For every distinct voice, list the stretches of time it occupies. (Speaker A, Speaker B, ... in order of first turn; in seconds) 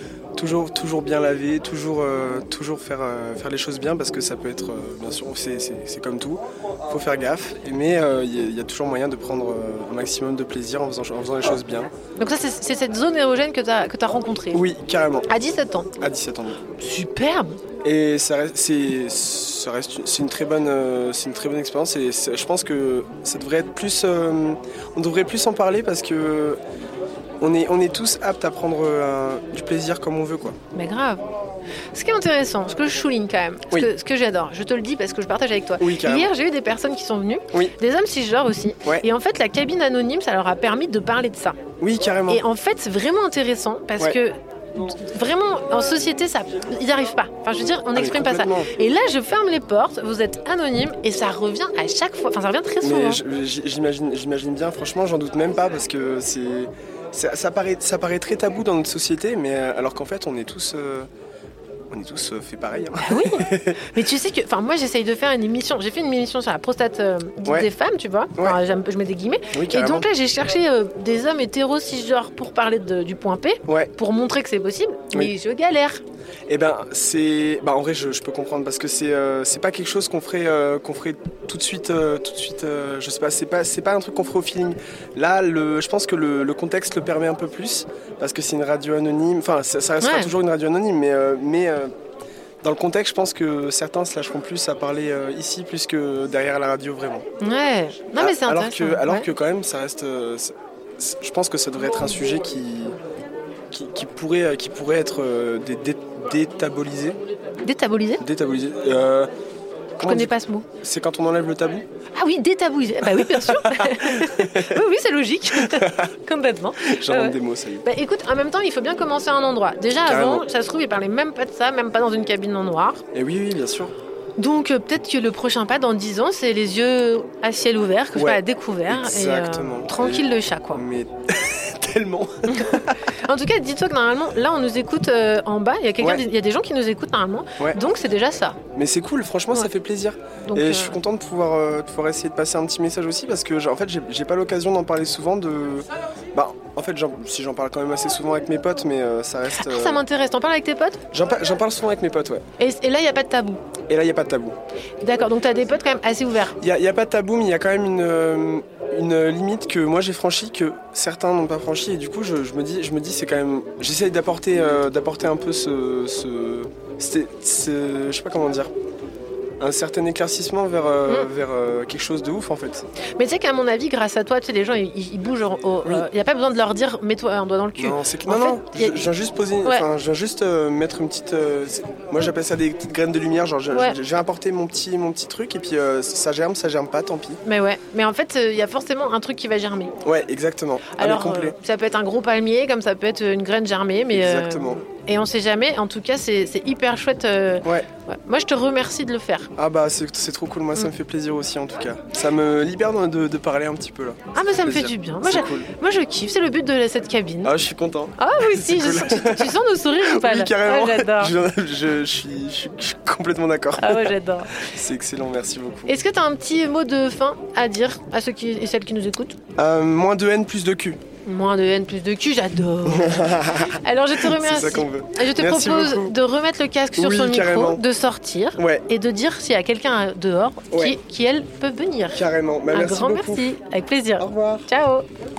Speaker A: 0.4-11.9, 14.5-15.3, 16.0-16.6, 17.8-26.6, 27.4-30.6, 35.8-36.3, 41.8-42.4, 48.0-48.7, 52.8-61.1, 61.9-64.0, 69.5-70.1, 73.7-73.9, 76.5-91.9, 92.6-97.2, 98.2-103.0, 103.7-107.2, 108.2-109.3, 110.0-111.8, 113.0-114.8, 115.5-116.1, 116.8-117.9, 120.0-120.5, 123.1-123.9, 128.1-133.2, 136.0-136.2, 138.8-150.0, 151.1-152.4, 153.9-154.6, 156.6-168.7, 169.6-172.9, 177.8-187.4, 190.0-191.6, 194.1-194.8, 199.6-205.7, 207.4-216.0, 219.6-221.0, 222.9-226.2, 227.0-227.8, 228.6-228.8, 230.7-231.0, 232.1-233.5, 234.2-234.7
Speaker B: 12.2-14.6, 15.3-15.9, 16.8-17.6, 30.7-31.2, 31.9-41.6, 42.3-53.2, 63.0-76.0, 90.0-90.3, 97.4-99.3, 107.6-108.2, 110.0-110.7, 112.2-123.0, 124.4-130.8, 132.5-138.6, 140.4-141.0, 149.6-151.0, 152.6-153.6, 155.0-156.6, 173.2-179.1, 183.7-184.0, 187.4-189.9, 191.0-199.5, 204.3-207.5, 208.2-211.3, 213.8-214.7, 215.9-219.4, 221.2-235.1